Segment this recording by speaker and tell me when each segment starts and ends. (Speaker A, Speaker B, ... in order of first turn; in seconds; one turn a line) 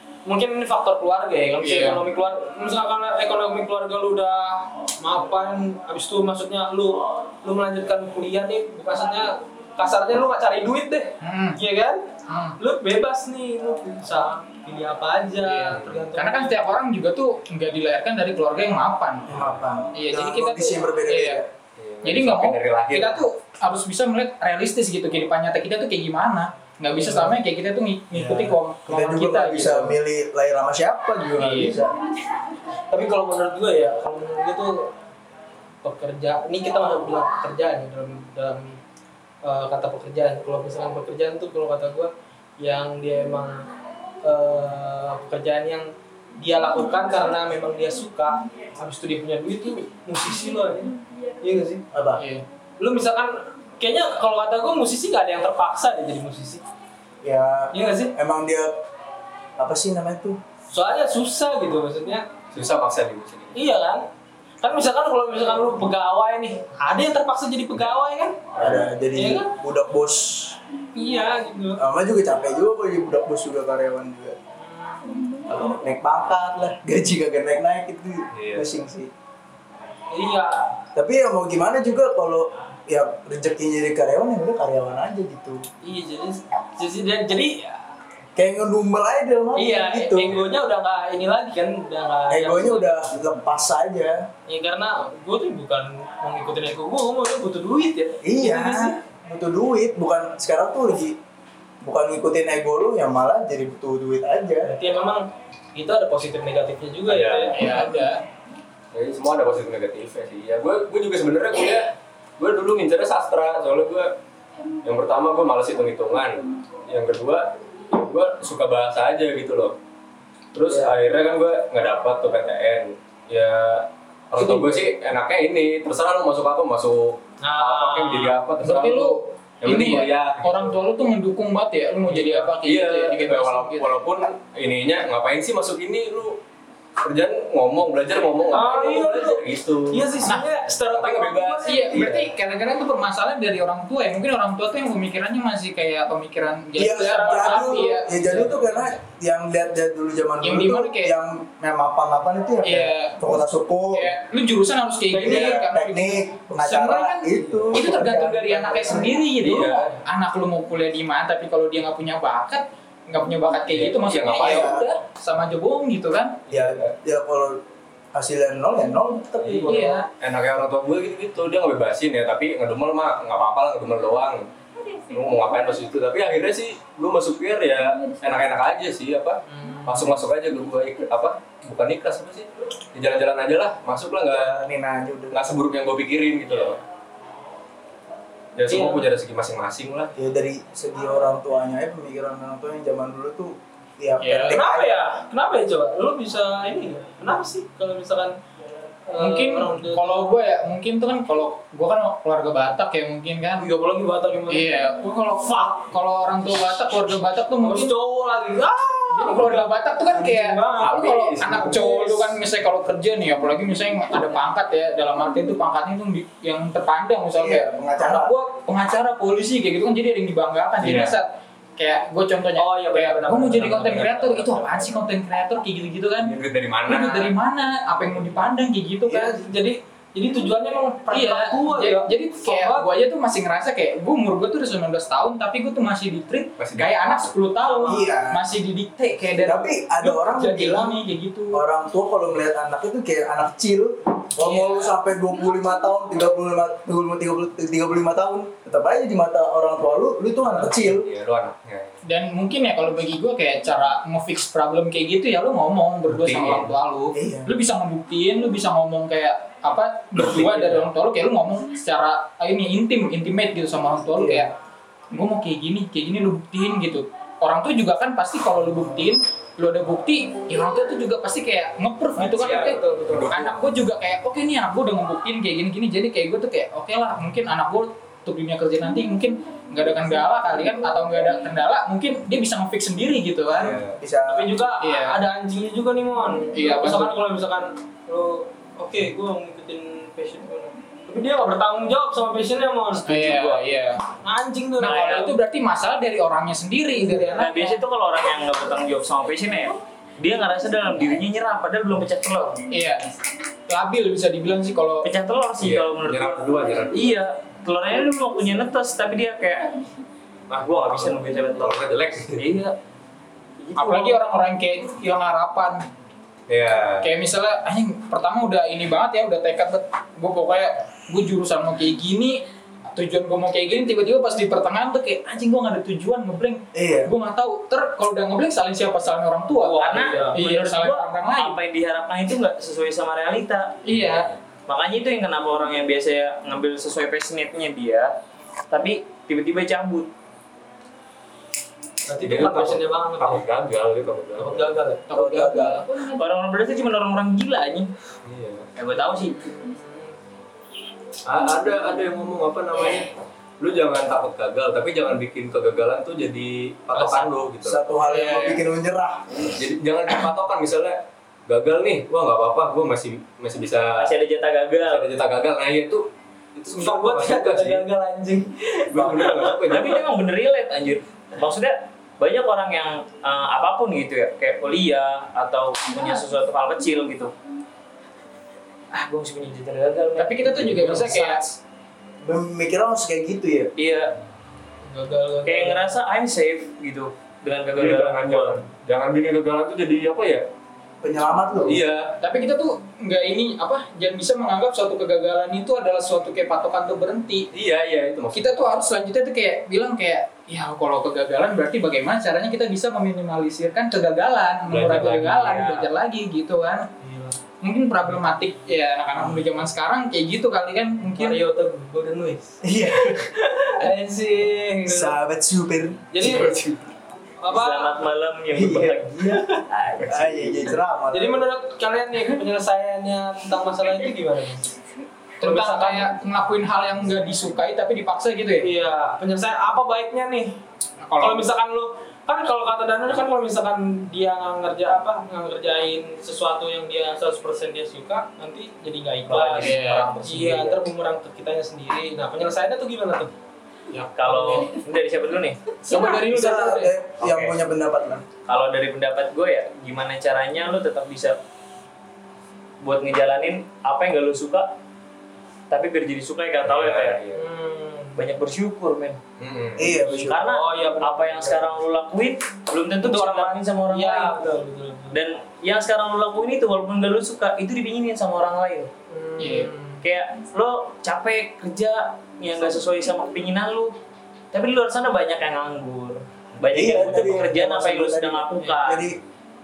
Speaker A: 0.2-16.6
Speaker B: 1.6-2.0
Speaker B: 11.2-11.6
Speaker B: 12.3-12.6
Speaker B: 15.4-19.3
Speaker C: 15.7-16.1
Speaker D: 19.3-21.5
Speaker C: 19.3-19.6
Speaker B: 19.9-21.4
Speaker C: 21.8-23.2
Speaker B: 22.0-29.9
Speaker D: 28.1-31.9
Speaker B: 31.4-31.8
Speaker A: 32.9-34.9
Speaker A: 35.8-38.8
Speaker A: 39.4-43.7
Speaker A: 44.2-51.8
Speaker D: 51.9-52.2
Speaker B: 52.2-52.4
Speaker A: 52.8-56.6
Speaker D: 57.2-58.7
Speaker A: 57.7-58.1
Speaker D: 59.6-60.4
Speaker A: 60.7-62.3
Speaker C: 62.5-63.6
Speaker A: 63.5-64.1
Speaker A: 64.6-68.5
Speaker C: 67.7-68.0
Speaker C: 68.6-68.9
Speaker D: 68.6-70.6
Speaker A: 69.1-69.5
Speaker A: 70.9-71.8
Speaker D: 71.8-74.4
Speaker A: 74.6-75.2
Speaker D: 75.5-79.1
Speaker C: 78.3-78.7
Speaker A: 80.1-80.8
Speaker D: 81.0-85.7
Speaker A: 85.8-87.9
Speaker D: 88.4-90.4
Speaker A: 89.5-93.0
Speaker D: 92.3-94.3
Speaker A: 94.5-98.7
Speaker D: 98.2-101.2
Speaker B: 98.5-98.9
Speaker D: 101.8-104.7
Speaker A: 104.7-107.8
Speaker C: 107.1-107.7
Speaker B: 107.5-108.2
Speaker C: 108.9-114.1
Speaker C: 114.8-119.8
Speaker C: 120.5-130.7
Speaker B: 124.4-124.8
Speaker A: 127.4-128.4
Speaker B: 128.6-133.9
Speaker A: 132.1-132.5
Speaker C: 132.6-136.4
Speaker C: 137.0-140.1
Speaker A: 138.5-142.1
Speaker C: 140.9-142.3
Speaker B: 141.6-148.8
Speaker D: 146.8-154.1
Speaker A: 147.1-148.5
Speaker B: 150.4-151.1
Speaker B: 152.6-153.2
Speaker B: 153.9-166.4
Speaker A: 155.1-155.5
Speaker D: 155.2-159.2
Speaker C: 159.4-159.9
Speaker C: 163.7-164.7
Speaker D: 164.4-164.8
Speaker C: 166.5-166.9
Speaker D: 166.5-167.6
Speaker D: 168.1-169.8
Speaker C: 169.4-174.5
Speaker A: 169.5-170.0
Speaker B: 169.7-170.1
Speaker C: 175.1-184.7
Speaker A: 179.5-180.2
Speaker D: 184.3-185.4
Speaker C: 185.3-186.8
Speaker A: 186.5-186.8
Speaker C: 188.6-190.1
Speaker A: 188.7-189.1
Speaker D: 190.2-195.0
Speaker B: 194.2-194.6
Speaker A: 194.5-198.4
Speaker A: 199.1-200.2
Speaker B: 199.2-203.7
Speaker A: 203.6-204.7
Speaker B: 204.5-207.9
Speaker A: 207.6-211.0
Speaker B: 209.1-229.4
Speaker C: 210.8-211.8
Speaker A: 211.6-212.3
Speaker D: 217.3-218.3
Speaker C: 220.8-221.2
Speaker E: 222.6-224.5
Speaker A: 222.9-223.2
Speaker C: 226.2-227.3
Speaker A: 229.1-232.9
Speaker B: 231.1-241.6
Speaker C: 236.6-237.3
Speaker A: 237.6-238.1
Speaker D: 237.9-238.4
Speaker D: 239.4-241.0
Speaker D: 241.5-251.1
Speaker B: 244.4-244.9
Speaker C: 250.8-252.0
Speaker B: 252.1-264.5
Speaker C: 256.1-256.7
Speaker D: 257.1-257.5
Speaker C: 260.2-260.9
Speaker D: 264.1-264.5
Speaker B: 265.1-283.8
Speaker A: 272.2-273.3
Speaker C: 272.3-273.6
Speaker C: 283.6-284.0
Speaker D: 283.9-284.6
Speaker A: 284.3-293.6
Speaker B: 284.8-285.2
Speaker B: 286.5-287.1
Speaker B: 293.1-294.0
Speaker A: 294.2-295.4
Speaker B: 294.8-297.8
Speaker E: 294.9-295.3
Speaker E: 297.3-302.6
Speaker B: 302.7-303.0
Speaker B: 303.7-305.1
Speaker E: 305.0-309.7
Speaker C: 305.6-307.1
Speaker C: 310.5-312.5
Speaker E: 310.5-312.8
Speaker E: 313.6-314.2
Speaker B: 313.8-315.8
Speaker C: 316.5-317.1
Speaker B: 317.0-331.6
Speaker D: 326.7-327.1
Speaker A: 329.6-330.4
Speaker E: 329.7-333.8
Speaker B: 333.9-334.3
Speaker C: 334.0-334.4
Speaker E: 334.7-338.1
Speaker E: 338.7-340.1
Speaker A: 342.1-343.4
Speaker C: 342.2-344.8
Speaker A: 344.4-345.1
Speaker B: 345.1-345.9
Speaker D: 345.1-345.8
Speaker E: 345.9-347.9
Speaker C: 348.2-348.7
Speaker E: 348.8-349.5
Speaker A: 349.5-350.2
Speaker C: 351.2-357.9
Speaker D: 357.6-359.4
Speaker B: 358.0-358.6
Speaker C: 359.4-364.1
Speaker E: 364.0-365.1
Speaker C: 364.8-367.9
Speaker A: 366.7-369.6
Speaker C: 368.9-370.1
Speaker E: 369.7-377.3
Speaker E: 378.9-381.5
Speaker B: 380.2-381.6
Speaker D: 382.2-383.7
Speaker E: 383.8-384.2
Speaker A: 384.8-386.0
Speaker E: 385.4-388.6
Speaker C: 387.8-390.5
Speaker D: 391.0-391.8
Speaker C: 391.6-392.2
Speaker B: 392.2-397.5
Speaker C: 397.5-398.7
Speaker B: 398.3-406.9
Speaker C: 404.7-405.6
Speaker E: 405.3-405.9
Speaker A: 407.0-407.4
Speaker B: 407.6-411.4
Speaker A: 411.1-415.2
Speaker D: 412.6-413.3
Speaker D: 414.9-416.2
Speaker A: 416.1-416.6
Speaker C: 416.3-416.8
Speaker A: 417.4-418.0
Speaker E: 417.5-420.8
Speaker D: 418.5-419.5
Speaker D: 420.1-421.5
Speaker A: 421.1-424.7
Speaker B: 425.4-428.7
Speaker A: 425.4-426.1
Speaker A: 428.6-430.6
Speaker B: 431.0-431.5
Speaker A: 431.2-443.3
Speaker E: 439.3-440.9
Speaker B: 439.6-440.2
Speaker A: 443.9-444.7
Speaker B: 444.0-444.6
Speaker E: 444.1-445.6
Speaker B: 445.9-446.9
Speaker D: 445.9-448.3
Speaker E: 447.2-447.5
Speaker E: 448.5-451.4
Speaker E: 452.8-454.7
Speaker E: 455.7-457.2
Speaker C: 456.6-457.4
Speaker A: 457.3-458.2
Speaker E: 458.2-459.2
Speaker C: 459.4-460.1
Speaker D: 459.8-460.5
Speaker A: 460.2-461.8
Speaker E: 460.2-464.4
Speaker A: 463.0-465.2
Speaker E: 465.1-468.9
Speaker A: 469.1-470.0
Speaker B: 469.4-469.7
Speaker E: 470.0-473.9
Speaker E: 474.5-479.1
Speaker D: 476.6-479.2
Speaker A: 478.6-479.0